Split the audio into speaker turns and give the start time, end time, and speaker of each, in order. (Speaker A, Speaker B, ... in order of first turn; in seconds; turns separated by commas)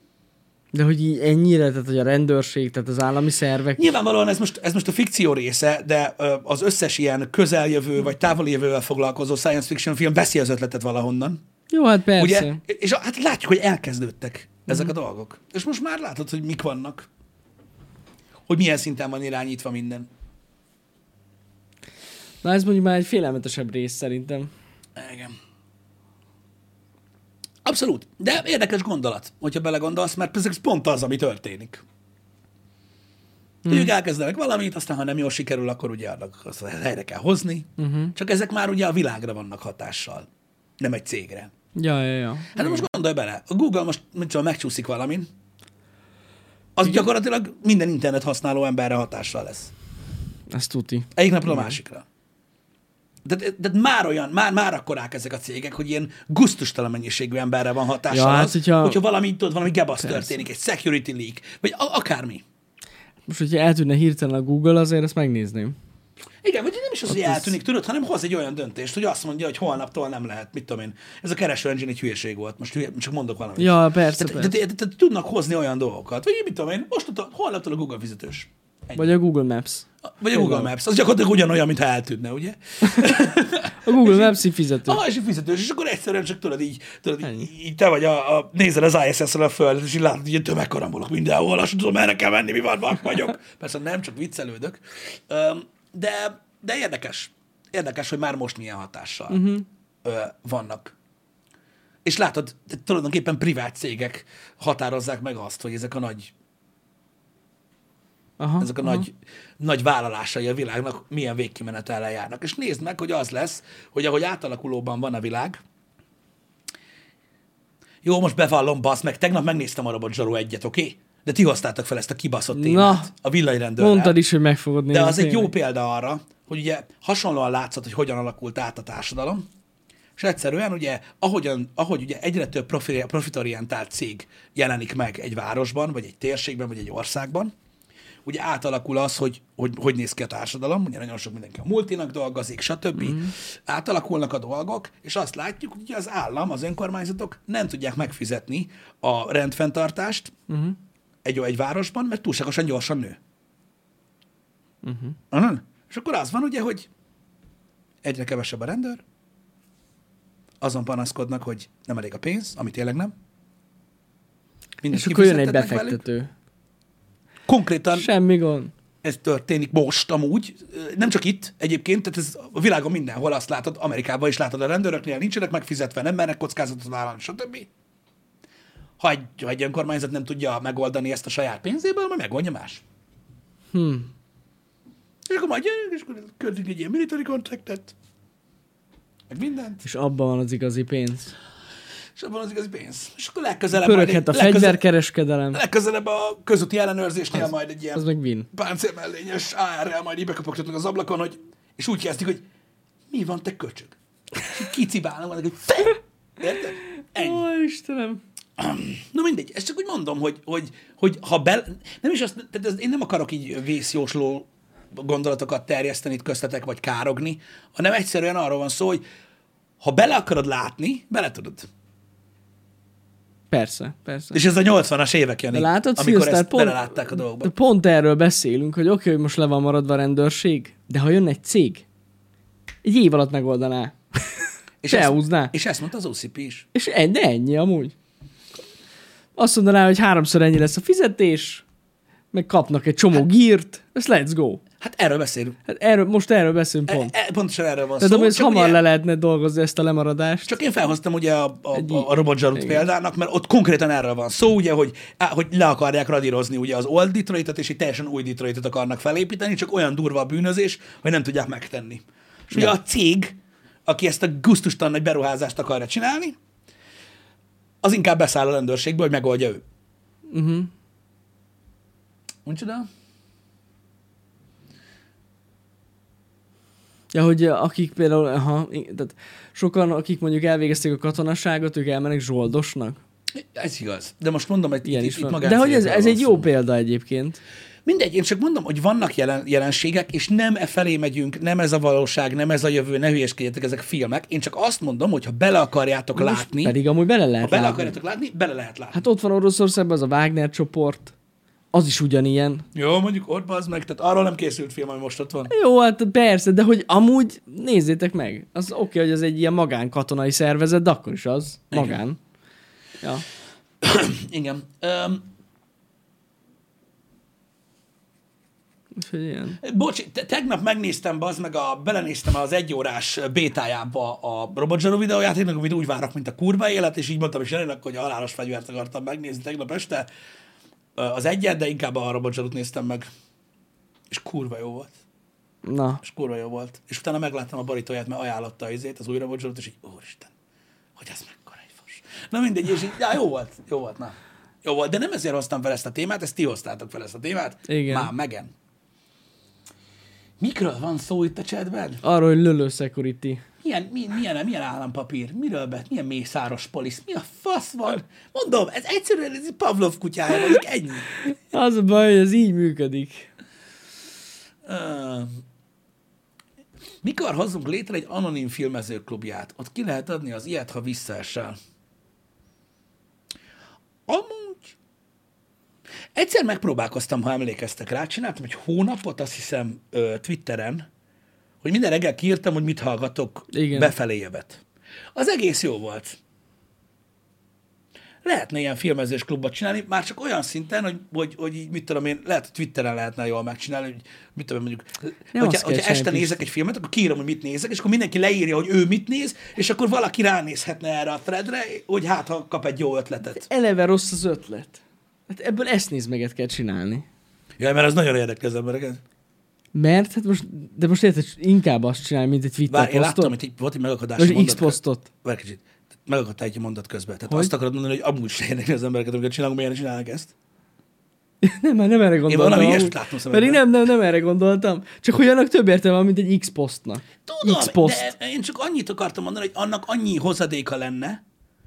Speaker A: 0.7-3.9, Speaker B: 3.8-11.4, Speaker A: 11.7-12.6, Speaker B: 12.2-17.1, Speaker A: 14.7-14.9, Speaker B: 18.5-20.1, Speaker A: 22.4-24.5, Speaker B: 24.9-25.3, Speaker B: 27.6-31.8, Speaker B: 33.6-40.3, Speaker A: 37.8-38.1, Speaker B: 40.8-41.5, Speaker A: 41.8-42.8, Speaker B: 42.5-45.3, Speaker B: 46.8-49.7, Speaker A: 50.5-51.8, Speaker B: 51.1-52.0, Speaker B: 53.2-62.4, Speaker A: 58.1-59.0, Speaker A: 60.0-60.4, Speaker A: 63.3-65.8, Speaker B: 66.4-79.1, Speaker A: 67.1-67.5, Speaker A: 73.6-74.6, Speaker A: 79.0-80.7, Speaker B: 80.2-99.5, Speaker A: 82.8-85.0, Speaker A: 87.2-87.5, Speaker A: 99.3-99.6, Speaker B: 100.0-100.9, Speaker B: 102.0-106.3, Speaker A: 108.4-109.0, Speaker B: 108.6-115.6, Speaker B: 118.0-124.2, Speaker A: 122.5-123.1, Speaker A: 123.8-125.5, Speaker B: 124.9-129.4, Speaker B: 130.2-137.5, Speaker B: 138.2-150.3, Speaker A: 143.0-143.3, Speaker A: 150.5-150.8, Speaker B: 151.2-153.2, Speaker A: 154.8-155.2, Speaker B: 155.3-156.9, Speaker B: 158.0-159.0, Speaker B: 160.6-163.1, Speaker B: 164.8-166.0, Speaker A: 164.9-166.3, Speaker B: 167.5-168.1, Speaker A: 167.9-168.7, Speaker B: 169.0-177.7, Speaker B: 179.0-182.8, Speaker A: 183.7-184.1, Speaker B: 185.3-187.9, Speaker B: 189.3-189.8, Speaker A: 189.8-191.3, Speaker B: 192.2-194.8, Speaker A: 193.7-195.6, Speaker B: 195.5-202.4, Speaker A: 197.3-198.5, Speaker B: 203.1-207.4, Speaker A: 207.2-208.2, Speaker B: 208.6-219.0, Speaker B: 219.8-221.7, Speaker A: 223.5-224.4, Speaker B: 224.3-227.5, Speaker A: 225.5-231.8, Speaker A: 232.8-235.5, Speaker B: 234.8-236.7, Speaker A: 236.7-237.9, Speaker A: 239.3-241.6, Speaker A: 242.3-244.6, Speaker B: 244.8-245.6, Speaker A: 245.7-247.1, Speaker B: 246.9-248.8, Speaker A: 248.0-250.6, Speaker B: 250.4-266.4, Speaker A: 251.7-252.8, Speaker B: 267.8-269.6, Speaker A: 270.3-270.7, Speaker B: 272.4-272.9, Speaker A: 277.1-283.0, Speaker B: 283.3-286.5, Speaker A: 284.8-287.4, Speaker B: 287.9-296.7, Speaker A: 296.1-297.9, Speaker B: 297.4-299.0, Speaker A: 298.9-301.1, Speaker A: 301.7-302.6, Speaker B: 302.7-305.5, Speaker A: 305.5-312.2, Speaker B: 311.7-312.0, Speaker B: 313.8-315.3, Speaker A: 318.9-319.6, Speaker B: 319.6-330.1, Speaker B: 330.9-333.1, Speaker B: 334.1-334.9, Speaker A: 335.6-336.0, Speaker B: 336.0-340.3, Speaker B: 341.0-348.5, Speaker A: 347.7-348.1, Speaker B: 350.4-352.0, Speaker A: 352.0-353.4, Speaker B: 353.6-361.2, Speaker A: 361.2-363.3, Speaker B: 364.6-365.4, Speaker B: 367.0-371.6, Speaker B: 374.1-374.7, Speaker B: 376.1-380.9, Speaker B: 381.6-384.6, Speaker A: 383.5-383.9, Speaker B: 385.1-386.2, Speaker B: 388.2-403.4, Speaker A: 395.3-396.3, Speaker A: 403.3-407.0, Speaker B: 407.6-409.0, Speaker A: 409.7-413.3, Speaker B: 412.7-420.3, Speaker A: 414.2-415.1, Speaker A: 421.4-428.1, Speaker B: 422.3-423.6, Speaker B: 427.2-431.2